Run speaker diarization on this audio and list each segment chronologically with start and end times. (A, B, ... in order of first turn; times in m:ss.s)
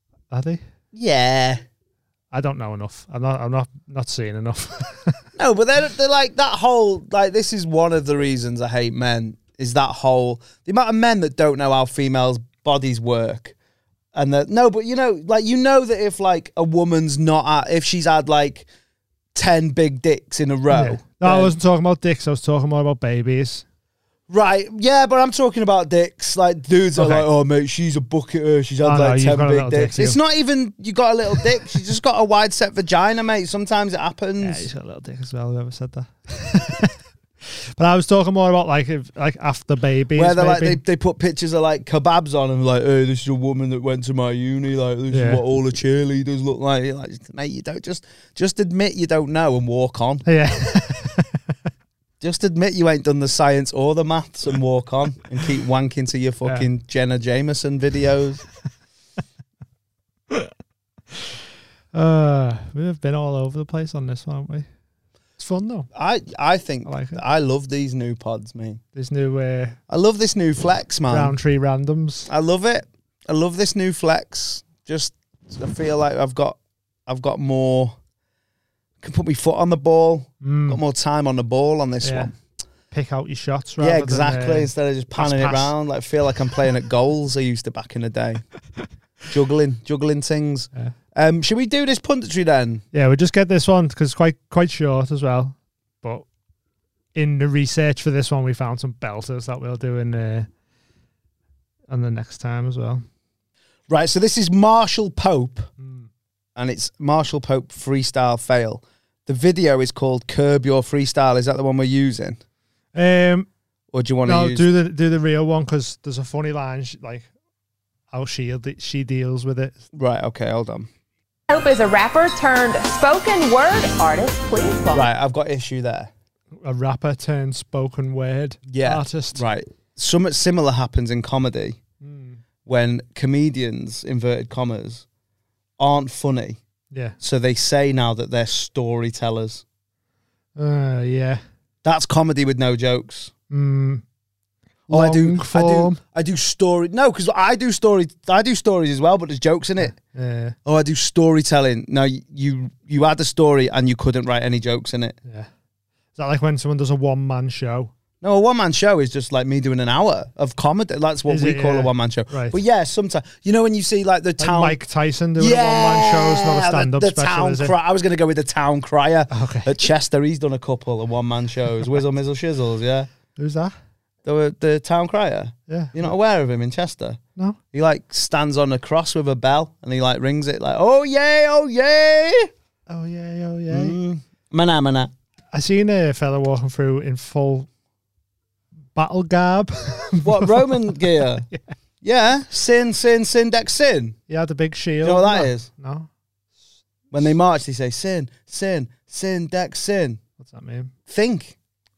0:00.3-0:00.6 A
0:00.9-0:01.6 B
0:02.3-0:05.2 A
0:05.4-0:13.6 B
0:14.1-0:18.6 B
0:19.4-0:21.5 B
0:20.7-0:23.6 A
0:24.3-0:34.7 B
0:27.0-0:27.3 A
0:28.8-0:30.2 A
0:34.4-0:36.9 A
0:37.8-0:40.8 A
0:40.1-0:50.3 B
0:45.1-0:45.4 A
0:50.3-0:51.4 A
0:52.2-0:58.4 B
1:01.9-1:04.7 A
1:05.4-1:05.9 A
1:05.9-1:08.8 B
1:06.8-1:07.2 A
1:08.9-1:09.8 A
1:09.9-1:11.4 B
1:11.1-1:12.3 A
1:12.3-1:17.9 B
1:19.0-1:22.3 B
1:20.4-1:20.8 A
1:22.0-1:22.3 A
1:22.9-1:25.7 A
1:23.8-1:28.4 B
1:29.3-1:32.8 B
1:32.9-1:36.2 A
1:37.1-1:40.5 A
1:41.9-1:43.0 A
1:43.9-1:45.7 B
1:45.8-1:46.1 A
1:46.6-1:52.4 B
1:52.9-1:53.5 A
1:53.9-1:54.7 B
1:54.2-1:57.3 A
1:58.1-1:59.8 A
1:59.9-2:00.9 B
2:01.5-2:05.1 C
2:04.9-2:06.1 B
2:06.6-2:09.4 A
2:08.7-2:11.8 B
2:12.0-2:12.4 A
2:12.6-2:15.0 B
2:15.8-2:16.6 B
2:16.9-2:17.2 A
2:17.2-2:19.6 B
2:20.6-2:21.4 A
2:21.8-2:23.3 B
2:23.5-2:24.0 A
2:24.9-2:26.0 A
2:24.9-2:29.9 B
2:29.8-2:30.6 A
2:30.6-2:35.2 B
2:36.1-2:37.9 A
2:38.2-2:44.8 B
2:41.3-2:42.6 A
2:44.4-2:47.7 A
2:45.4-2:53.1 B
2:49.3-2:49.7 A
2:53.4-2:53.7 A
2:54.2-2:57.2 B
2:55.7-2:56.1 A
2:57.7-3:02.5 B
3:02.9-3:04.0 A
3:03.7-3:05.1 B
3:05.5-3:07.7 A
3:08.9-3:11.7 A
3:10.2-3:11.4 B
3:12.0-3:14.2 B
3:14.3-3:16.1 A
3:15.0-3:15.7 B
3:17.1-3:20.2 B
3:20.4-3:20.9 A
3:21.1-3:21.6 B